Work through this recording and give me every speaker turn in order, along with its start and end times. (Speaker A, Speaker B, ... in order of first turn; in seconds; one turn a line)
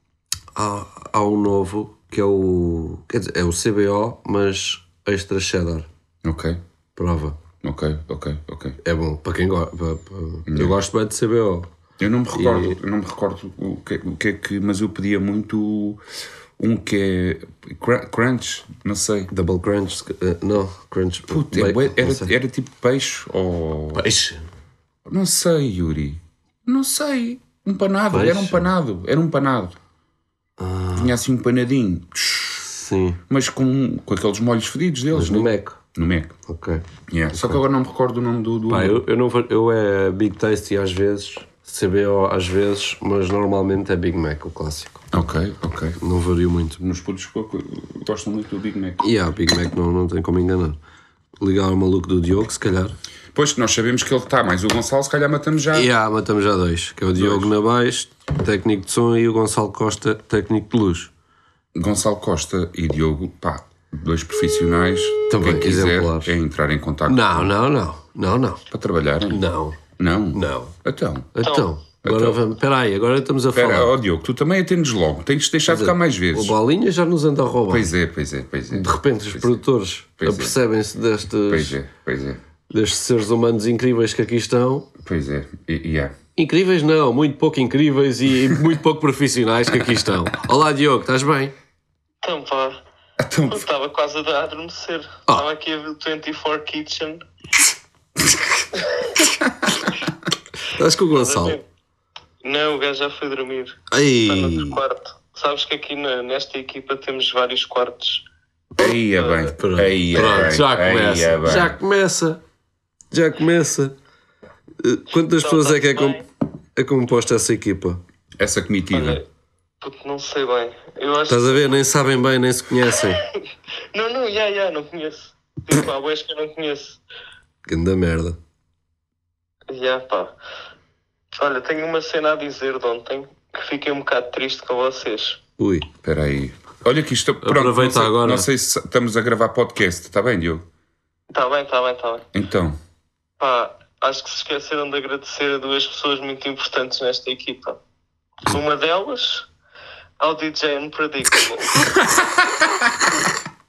Speaker A: 0.5-5.9
Speaker B: 6.2-6.6
Speaker A: 7.0-7.4
Speaker B: 7.6-8.8
Speaker A: 8.8-11.7
Speaker B: 10.5-10.8
Speaker B: 12.0-16.0
Speaker A: 12.3-12.8
Speaker B: 16.6-19.3
Speaker A: 19.3-22.3
Speaker B: 21.3-24.1
Speaker A: 23.9-24.4
Speaker B: 25.1-29.8
Speaker A: 28.1-28.7
Speaker A: 30.6-31.1
Speaker B: 30.9-32.7
Speaker A: 32.7-33.2
Speaker B: 33.3-36.4
Speaker A: 35.1-35.8
Speaker A: 36.5-37.6
Speaker B: 37.1-39.0
Speaker A: 38.7-45.0
Speaker B: 45.1-46.0
Speaker A: 46.0-46.8
Speaker B: 46.8-49.0
Speaker A: 49.0-50.8
Speaker A: 51.4-52.9
Speaker B: 53.3-55.9
Speaker A: 55.7-61.1
Speaker B: 57.1-57.5
Speaker B: 61.7-67.5
Speaker A: 65.3-66.3
Speaker A: 67.0-68.6
Speaker B: 68.7-69.4
Speaker A: 69.3-69.8
Speaker B: 70.0-71.3
Speaker A: 70.3-70.7
Speaker A: 71.3-73.9
Speaker C: 71.4-71.7
Speaker B: 72.0-72.4
Speaker B: 73.5-76.5
Speaker A: 75.7-77.9
Speaker B: 77.7-79.5
Speaker A: 78.7-81.8
Speaker B: 80.2-80.6
Speaker B: 81.5-82.4
Speaker A: 82.7-84.9
Speaker B: 85.0-86.1
Speaker A: 86.3-91.5
Speaker C: 92.2-92.8
Speaker B: 93.2-93.6
Speaker C: 93.5-97.2
Speaker A: 100.7-101.6
Speaker C: 101.1-101.6
Speaker C: 102.4-108.2
Speaker A: 103.9-104.8
Speaker B: 108.8-111.8
Speaker C: 109.2-109.4
Speaker A: 109.6-112.4
Speaker A: 113.1-113.9
Speaker A: 114.8-116.2
Speaker C: 115.3-116.2
Speaker A: 116.8-118.0
Speaker B: 118.4-119.2
Speaker C: 118.9-119.2
Speaker C: 119.8-121.8
Speaker A: 121.3-123.2
Speaker C: 123.9-127.0
Speaker A: 127.7-128.4
Speaker C: 129.7-130.3
Speaker C: 131.3-135.4
Speaker A: 135.6-135.9
Speaker B: 136.0-140.7
Speaker A: 137.4-138.5
Speaker C: 141.3-142.3
Speaker B: 142.3-142.8
Speaker C: 143.4-147.8
Speaker C: 148.4-149.5
Speaker C: 150.2-151.9